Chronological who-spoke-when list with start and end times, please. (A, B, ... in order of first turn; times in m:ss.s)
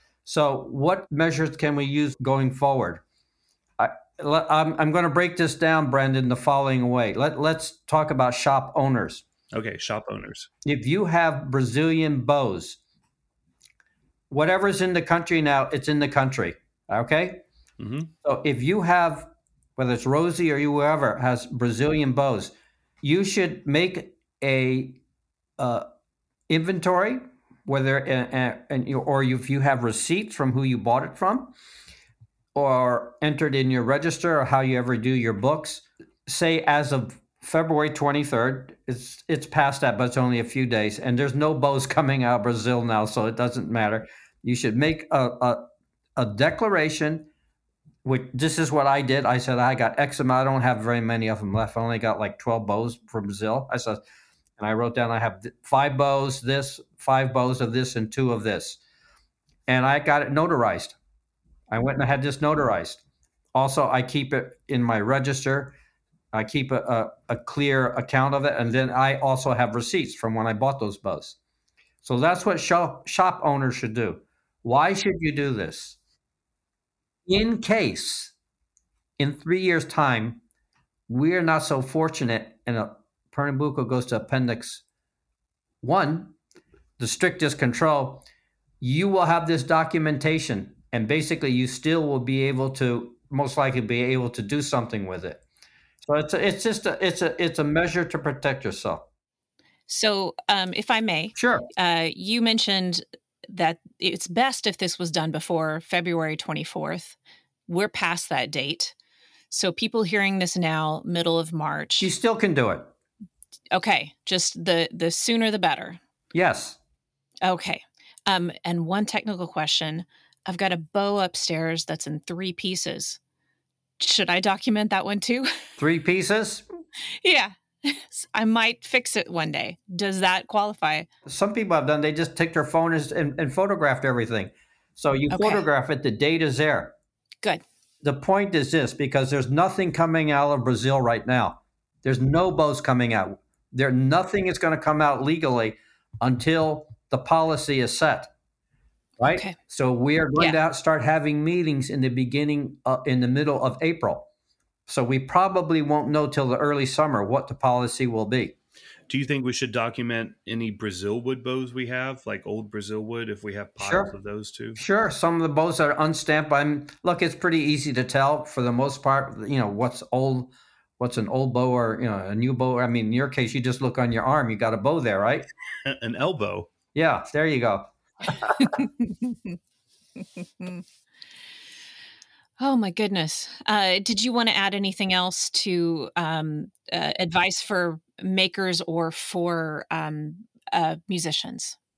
0:00.2-0:03.0 A
0:03.8-0:09.2 A
0:09.5-0:10.5 B
0:10.6-0:12.8 A
0:14.3-0:17.4 A
0:17.8-0:18.1 B
0:18.2-0:25.0 A
0:25.6-0:25.9 A
0:26.5-0:31.5 A
0:32.6-0:47.3 A
0:48.0-0:54.0 A
0:54.6-0:58.8 A
0:59.7-1:01.0 A
1:01.7-1:03.0 A
1:03.5-1:05.8 A
1:06.3-1:11.4 A
1:12.0-1:16.0 A
1:17.3-1:18.3 A
1:19.2-1:20.4 A
1:21.1-1:24.8 A
1:25.8-1:26.4 A
1:27.0-1:28.3 A
1:28.8-1:35.4 A
1:36.0-1:39.1 A
1:39.9-1:47.2 C
1:41.4-1:41.7 A
1:47.7-1:49.0 C
1:49.5-1:52.1 C
1:52.0-1:52.9 A
1:53.7-1:56.0 C
1:56.3-1:56.8 A
1:57.4-2:03.2 C
2:04.0-2:05.5 C
2:05.8-2:06.7 A
2:07.2-2:11.1 C
2:11.3-2:16.9 A
2:15.3-2:15.7 C
2:18.0-2:28.3 A
2:29.2-2:34.3 A
2:29.2-2:29.6 C
2:34.9-2:38.6 A
2:39.1-2:44.8 B
2:43.8-2:44.1 A
2:44.8-2:55.5 A
2:55.8-2:56.7 B
2:57.0-2:58.8 A
2:59.0-2:59.4 C
3:00.4-3:00.8 C
3:02.6-3:11.8 C